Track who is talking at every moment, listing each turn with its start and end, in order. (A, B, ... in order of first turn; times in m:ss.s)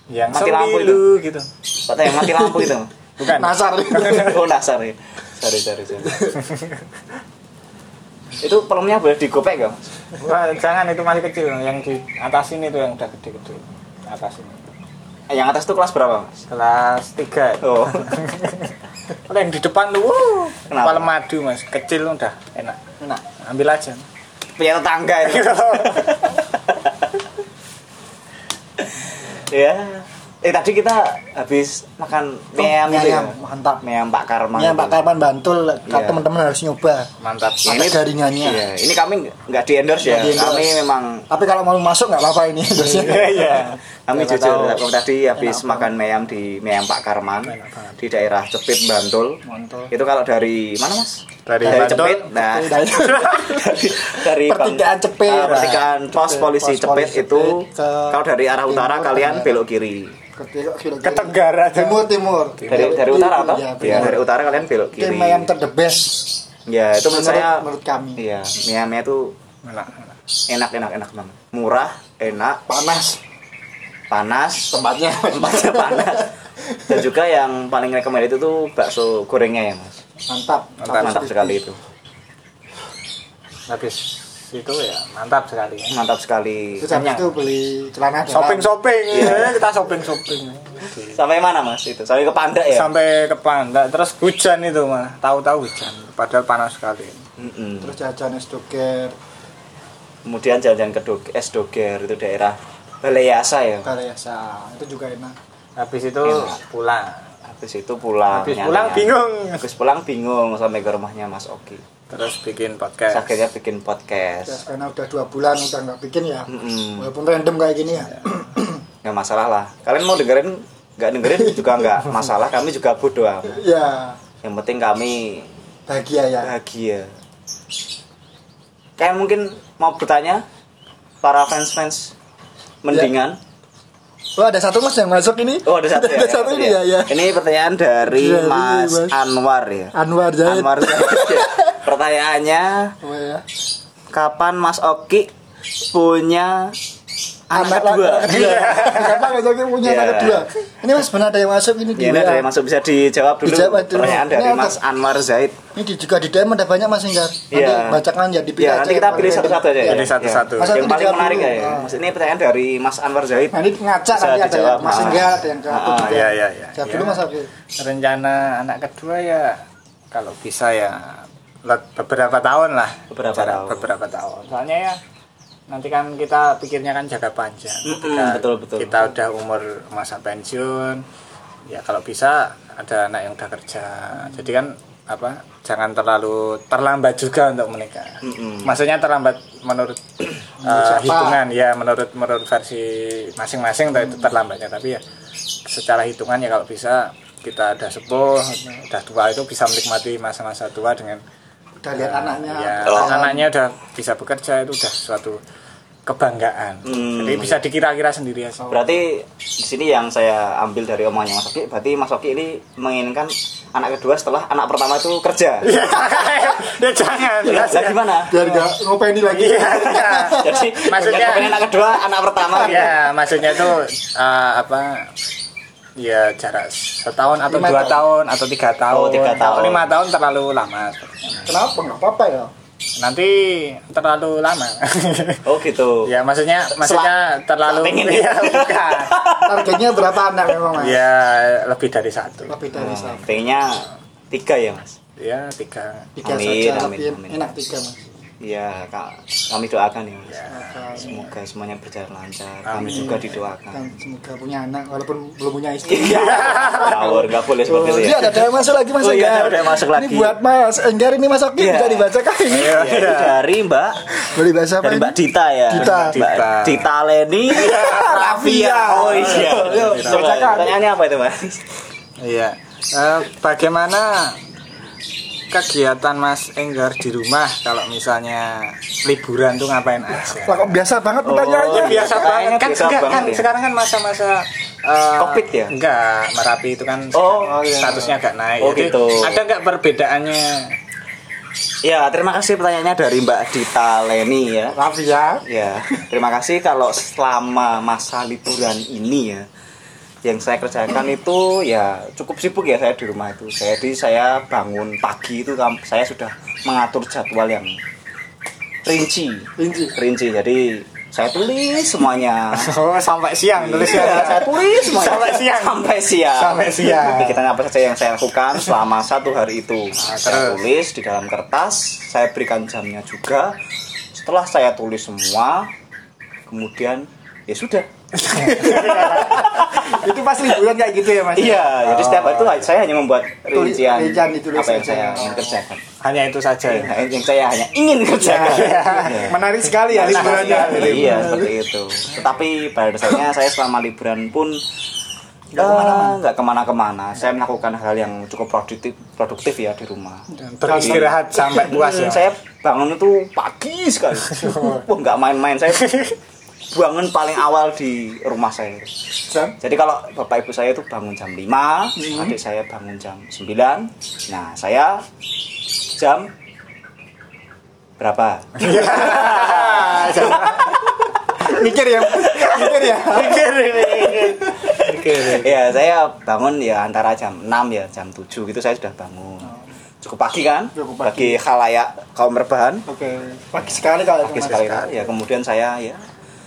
0:00.1-0:01.5 A
0:00.3-0:01.0 B
0:01.9-0:02.9 B
0:02.1-0:04.4 C
0:03.2-0:04.4 A
0:04.0-0:06.3 B
0:06.1-0:06.4 C
0:08.4-0:09.8 B
0:10.2-0:14.6 A
0:15.3-0:16.4 B
0:16.5-0:18.7 A
0:17.6-0:18.2 B
0:19.3-0:24.0 A
0:20.7-0:21.1 B
0:24.6-0:27.1 B
0:25.2-0:26.3 A
0:28.8-0:35.0 B
0:32.6-0:33.8 C
0:34.6-0:37.1 C
0:35.9-0:36.2 B
0:37.2-0:37.8 A
0:37.6-0:41.3 B
0:37.6-0:38.7 C
0:40.0-0:40.7 C
0:41.3-0:43.6 C
0:42.8-0:44.8 A
0:43.4-0:49.4 B
0:45.4-0:45.9 C
0:47.5-0:48.0 A
0:49.4-0:49.9 C
0:49.9-1:00.2 B
0:51.5-0:52.2 A
0:51.6-0:59.6 C
0:53.0-0:53.6 A
0:55.4-0:55.8 A
1:00.4-1:04.2 C
1:01.0-1:02.1 A
1:02.6-1:03.0 A
1:02.7-1:05.5 B
1:04.9-1:06.3 C
1:06.7-1:07.6 B
1:07.1-1:08.2 C
1:08.2-1:09.4 B
1:09.6-1:10.1 A
1:10.5-1:12.6 B
1:12.7-1:13.2 C
1:14.1-1:14.7 B
1:14.7-1:17.0 C
1:15.3-1:16.3 B
1:16.9-1:20.0 B
1:20.3-1:21.6 C
1:20.9-1:21.8 B
1:20.9-1:21.2 A
1:23.7-1:26.0 A
1:25.9-1:26.9 B
1:26.8-1:28.7 C
1:26.9-1:27.4 A
1:28.3-1:31.2 A
1:29.1-1:29.7 B
1:31.1-1:32.9 B
1:32.7-1:37.2 A
1:37.4-1:37.9 B
1:37.8-1:39.2 C
1:40.2-1:43.9 B
1:43.8-1:45.4 C
1:45.8-1:47.2 A
1:46.2-1:46.6 B
1:47.4-1:51.8 B
1:48.3-1:49.6 A
1:52.1-1:53.3 A
1:53.1-1:54.6 B
1:54.5-1:58.8 C
1:56.5-1:57.1 B
1:59.0-2:03.6 B
2:01.4-2:01.9 C
2:03.4-2:04.2 C
2:04.4-2:05.5 B
2:05.9-2:06.5 C
2:06.4-2:07.1 B
2:09.0-2:10.4 B
2:11.2-2:12.2 B
2:12.8-2:13.4 B
2:14.4-2:17.3 C
2:15.6-2:23.0 B
2:18.0-2:19.2 C
2:19.9-2:21.8 C
2:23.0-2:23.4 C
2:24.1-2:25.3 B
2:25.9-2:26.8 B
2:27.5-2:29.0 B
2:27.5-2:32.5 C
2:28.3-2:29.2 A
2:29.8-2:30.5 B
2:32.0-2:35.6 B
2:33.4-2:34.8 C
2:35.8-2:42.0 C
2:37.5-2:38.0 B
2:38.6-2:43.6 B
2:39.8-2:40.9 A
2:43.5-2:47.5 C
2:44.1-2:46.3 B
2:45.9-2:47.2 A
2:47.8-2:49.6 A
2:50.1-2:55.0 A
2:53.1-2:53.9 B
2:55.7-3:01.0 A
2:57.8-2:59.1 B
3:01.7-3:15.0 A
3:08.2-3:08.8 B
3:10.6-3:11.4 C
3:15.7-3:21.2 A
3:21.8-3:23.5 C
3:22.0-3:25.4 A
3:22.9-3:23.2 B
3:26.1-3:28.7 A
3:26.8-3:27.6 B
3:28.7-3:35.7 B
3:35.6-3:38.1 A
3:37.4-3:38.4 B
3:38.3-3:41.6 C
3:39.3-3:41.6 A
3:40.1-3:43.1 B
3:42.5-3:45.1 A
3:46.0-3:51.4 A
3:47.5-3:48.0 C
3:48.9-3:49.9 B
3:51.5-3:52.5 C
3:53.0-3:55.5 A
3:55.4-3:56.1 B
3:56.0-3:59.2 A
3:56.8-3:59.9 B
3:59.4-4:01.0 C
4:00.8-4:02.5 A
4:02.5-4:03.4 C
4:02.7-4:05.0 B
4:05.2-4:06.1 A
4:06.2-4:08.0 C
4:06.2-4:07.4 B
4:08.4-4:13.8 B
4:10.3-4:10.6 A
4:10.5-4:11.3 C
4:12.7-4:13.3 A
4:12.8-4:22.9 C
4:15.9-4:20.4 B
4:16.0-4:17.3 A
4:21.6-4:24.1 B
4:22.5-4:23.4 A
4:24.2-4:26.2 C
4:24.8-4:31.6 B
4:25.8-4:26.9 A
4:27.5-4:30.8 C
4:27.5-4:28.2 A
4:28.9-4:30.4 A
4:32.2-4:34.4 A
4:35.5-4:40.7 A
4:40.3-4:42.3 C
4:41.2-4:43.5 B
4:41.6-4:50.8 A
4:45.2-4:45.8 B
4:47.1-4:47.6 B
4:47.4-4:48.2 C
4:48.6-4:49.4 B
4:51.8-4:54.8 B
4:54.7-4:56.0 C
4:55.4-4:59.5 B
5:00.2-5:07.8 B
5:08.8-5:12.7 B
5:09.6-5:10.0 C
5:12.6-5:17.4 A
5:13.6-5:23.6 B
5:20.0-5:20.6 A
5:24.1-5:25.7 B
5:26.5-5:30.0 B
5:28.3-5:32.5 C
5:28.3-5:29.4 A
5:31.3-5:35.8 B
5:33.5-5:35.6 C
5:36.0-5:36.9 A
5:36.7-5:39.4 B
5:38.2-5:41.5 C
5:38.3-5:41.3 A
5:39.9-5:44.6 B
5:45.5-5:46.2 C
5:45.6-5:56.1 B
5:50.5-5:52.3 A
5:50.6-5:51.6 C
5:54.4-5:54.7 A
5:56.7-5:58.9 B
5:59.3-5:59.6 C
5:59.6-6:05.1 B
6:02.0-6:02.3 C
6:06.0-6:06.3 B
6:08.0-6:10.6 B
6:08.6-6:10.8 A
6:09.1-6:14.9 C
6:12.3-6:15.6 A
6:14.6-6:22.8 B
6:20.7-6:21.4 C
6:22.9-6:24.8 C
6:24.3-6:26.0 B
6:24.3-6:25.0 A